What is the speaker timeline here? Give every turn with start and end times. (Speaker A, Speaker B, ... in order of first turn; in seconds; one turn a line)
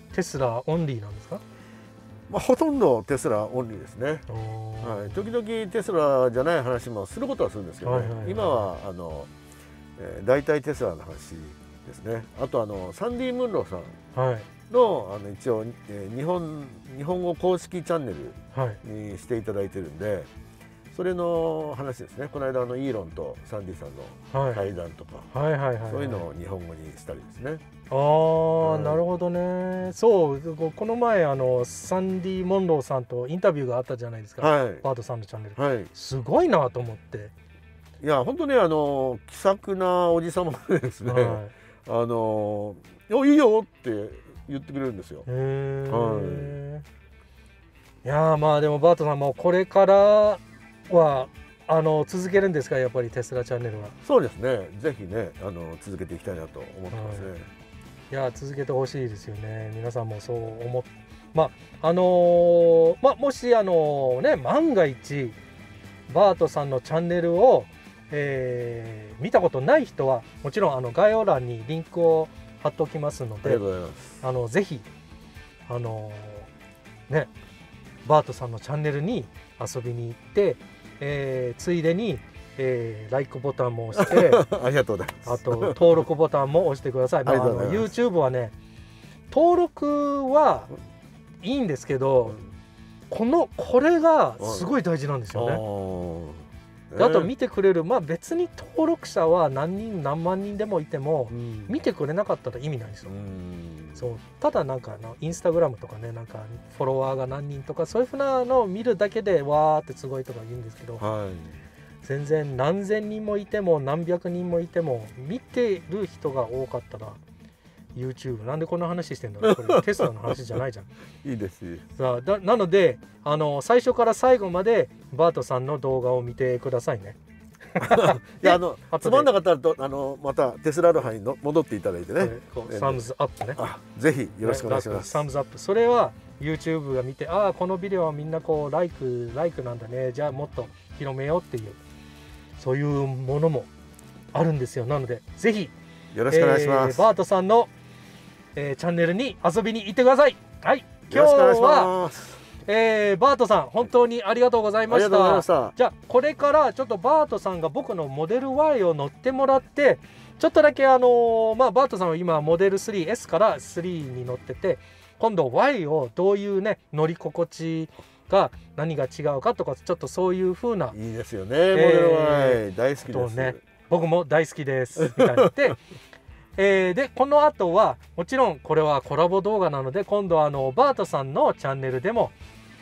Speaker A: 0.1-1.4
Speaker B: 2.3-4.3
Speaker A: 4.3-5.3
Speaker B: 4.8-9.3
Speaker A: 7.8-8.7
Speaker B: 10.0-14.0
Speaker A: 14.1-14.5
Speaker B: 14.7-20.3
Speaker A: 18.5-18.8
Speaker B: 20.9-25.3
Speaker A: 24.3-24.6
Speaker A: 25.3-26.3
Speaker B: 25.9-27.6
Speaker A: 27.9-37.3
Speaker B: 28.6-29.0
Speaker B: 34.4-34.9
Speaker B: 35.6-35.9
Speaker B: 38.0-45.3
Speaker A: 41.1-41.5
Speaker A: 45.3-46.9
Speaker B: 45.9-46.6
Speaker A: 48.0-54.0
Speaker B: 54.0-57.5
Speaker A: 56.9-57.3
Speaker A: 58.1-65.4
Speaker A: 66.1-73.6
Speaker B: 73.4-74.2
Speaker A: 74.2-74.9
Speaker A: 75.7-76.5
Speaker A: 78.0-84.4
Speaker B: 84.0-86.0
Speaker A: 85.3-88.5
Speaker B: 87.3-87.9
Speaker A: 89.3-90.7
Speaker A: 91.4-92.4
Speaker A: 93.1-95.6
Speaker B: 94.4-94.7
Speaker B: 95.3-97.3
Speaker A: 97.0-103.1
Speaker B: 101.3-101.8
Speaker B: 103.1-104.1
Speaker A: 104.0-111.0
Speaker B: 111.0-111.5
Speaker A: 112.0-117.2
Speaker A: 118.0-120.9
Speaker B: 119.4-120.6
Speaker B: 121.2-121.8
Speaker A: 122.0-127.2
Speaker A: 127.7-129.3
Speaker B: 127.8-133.0
Speaker A: 132.2-133.6
Speaker B: 133.6-135.3
Speaker A: 134.4-141.8
Speaker A: 142.6-143.7
Speaker A: 144.3-145.7
Speaker B: 146.1-147.1
Speaker A: 146.3-147.7
Speaker A: 148.6-151.9
Speaker B: 151.1-152.4
Speaker A: 152.7-171.0
Speaker B: 154.9-155.8
Speaker B: 170.9-173.6
Speaker A: 171.7-175.8
Speaker B: 175.0-175.7
Speaker A: 176.6-182.3